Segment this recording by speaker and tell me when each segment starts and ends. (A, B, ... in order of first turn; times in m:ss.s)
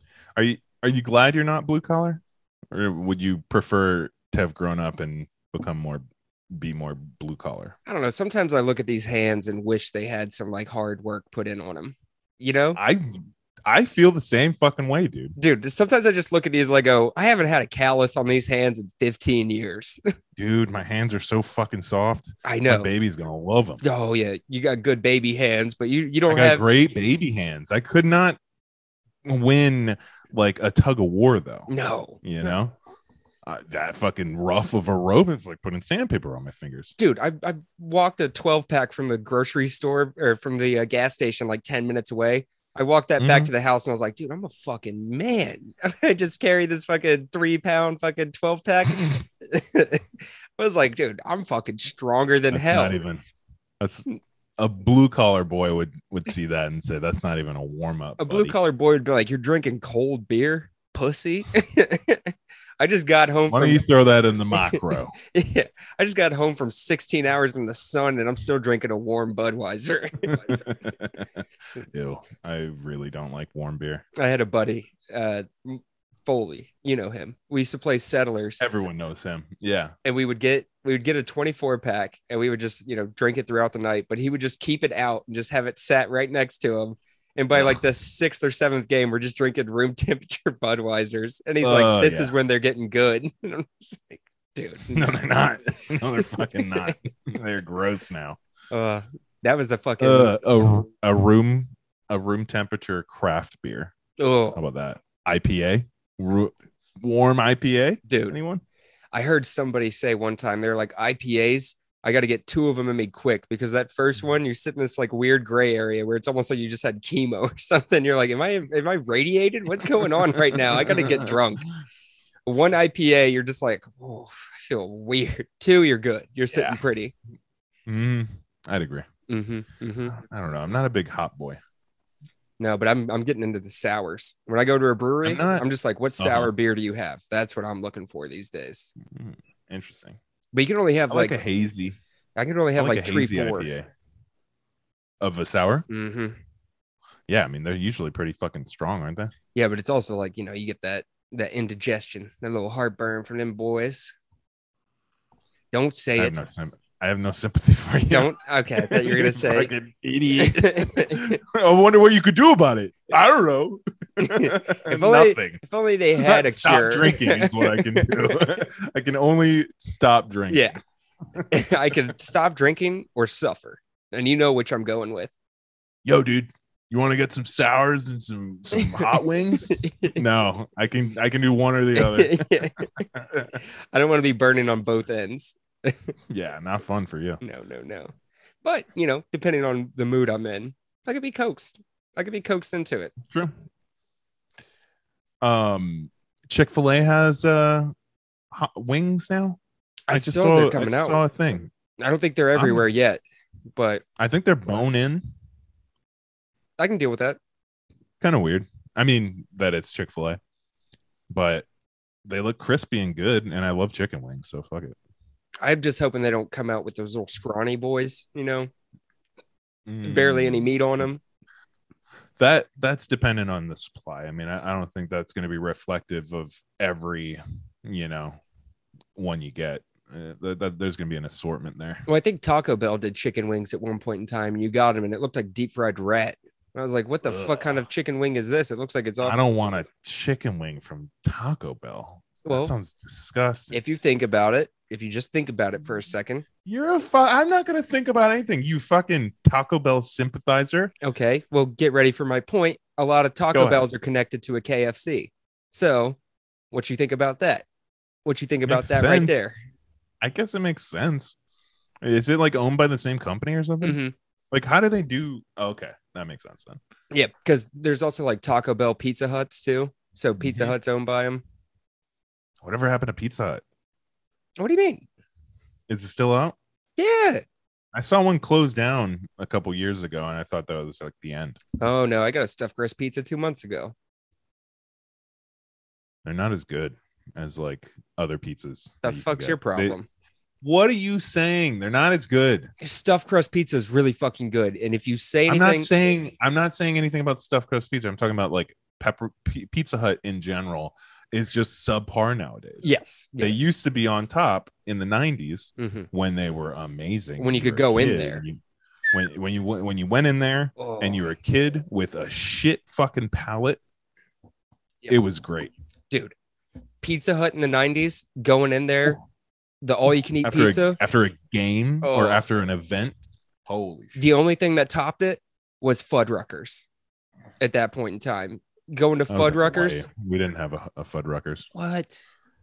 0:00.4-0:07.8 A
0:07.8-0:12.8 B
0:12.8-0:15.3 A
0:15.4-0:20.0 B
0:20.4-0:23.8 A
0:22.4-0:22.9 B
0:23.8-0:26.6 B
0:26.3-0:28.4 A
0:29.2-0:31.7 A
0:31.7-0:32.5 B
0:32.2-0:32.7 A
0:33.4-0:36.9 A
0:37.0-0:53.0 B
0:43.2-0:43.5 A
0:52.5-0:53.2 A
0:53.8-0:58.6 A
0:58.2-1:03.8 B
1:03.5-1:05.1 A
1:04.5-1:10.7 B
1:10.3-1:14.0 A
1:14.2-1:18.6 B
1:18.6-1:19.9 A
1:20.0-1:35.1 B
1:27.5-1:27.8 A
1:31.6-1:32.3 A
1:34.9-1:38.4 A
1:36.2-1:36.9 B
1:38.7-1:40.4 B
1:40.0-1:43.9 A
1:44.2-1:44.6 B
1:44.5-1:48.6 A
1:48.0-1:48.4 B
1:49.1-2:01.7 B
2:00.1-2:01.4 A
2:02.4-2:07.1 B
2:06.5-2:06.8 A
2:07.9-2:09.0 A
2:09.3-2:10.2 B
2:10.1-2:11.6 A
2:12.6-2:18.9 B
2:15.2-2:15.6 A
2:16.2-2:16.5 A
2:19.0-2:20.2 A
2:20.5-2:21.4 B
2:21.1-2:22.0 A
2:22.4-2:23.7 B
2:22.8-2:23.9 A
2:25.2-2:25.8 A
2:25.9-2:26.4 B
2:27.3-2:29.3 A
2:29.5-2:34.1 B
2:35.7-2:36.4 B
2:36.2-2:45.6 A
2:38.1-2:39.7 B
2:40.4-2:41.4 B
2:44.2-2:48.3 B
2:46.2-2:50.7 A
2:50.5-2:50.8 B
2:51.3-2:52.1 A
2:51.5-2:55.3 B
2:56.0-3:03.6 A
2:58.7-3:00.2 B
3:01.9-3:03.0 B
3:03.9-3:06.1 B
3:06.3-3:07.4 A
3:07.4-3:08.1 B
3:08.6-3:13.1 B
3:13.3-3:13.5 A
3:15.4-3:17.9 A
3:18.5-3:21.7 A
3:20.1-3:21.2 B
3:22.0-3:23.2 B
3:22.5-3:22.8 A
3:23.7-3:24.0 B
3:24.2-3:25.2 A
3:26.8-3:27.4 B
3:28.2-3:30.4 A
3:31.3-3:31.7 A
3:32.2-3:35.0 A
3:35.6-3:38.7 B
3:39.9-3:40.7 A
3:40.0-3:41.2 B
3:42.4-3:48.4 A
3:49.2-3:52.0 A
3:52.1-3:59.7 B
3:57.2-3:57.8 A
3:59.2-4:03.8 A
4:02.4-4:02.7 B
4:03.7-4:06.4 B
4:06.6-4:10.9 A
4:11.0-4:16.2 B
4:13.5-4:13.8 A
4:16.7-4:17.6 B
4:18.2-4:19.6 B
4:18.7-4:19.5 A
4:20.2-4:21.3 A
4:22.0-4:24.0 A
4:23.8-4:24.1 B
4:24.5-4:26.8 A
4:27.1-4:31.4 B
4:30.4-4:30.7 A
4:32.6-4:33.6 A
4:34.6-4:35.1 B
4:35.9-4:36.6 A
4:37.0-4:37.4 B
4:37.9-4:41.6 A
4:41.8-4:43.9 B
4:46.2-4:50.0 A
4:49.0-4:50.1 B
4:50.6-4:52.7 A
4:52.8-4:55.9 B
4:55.5-5:08.6 A
5:02.8-5:03.7 B
5:05.8-5:06.1 B
5:07.4-5:08.4 B
5:09.1-5:13.8 A
5:10.8-5:11.2 B
5:15.1-5:15.7 A
5:17.0-5:19.2 B
5:19.8-5:21.0 B
5:20.4-5:24.2 A
5:22.0-5:22.4 B
5:24.2-5:26.9 B
5:27.6-5:30.1 B
5:29.3-5:31.7 A
5:31.7-5:32.2 B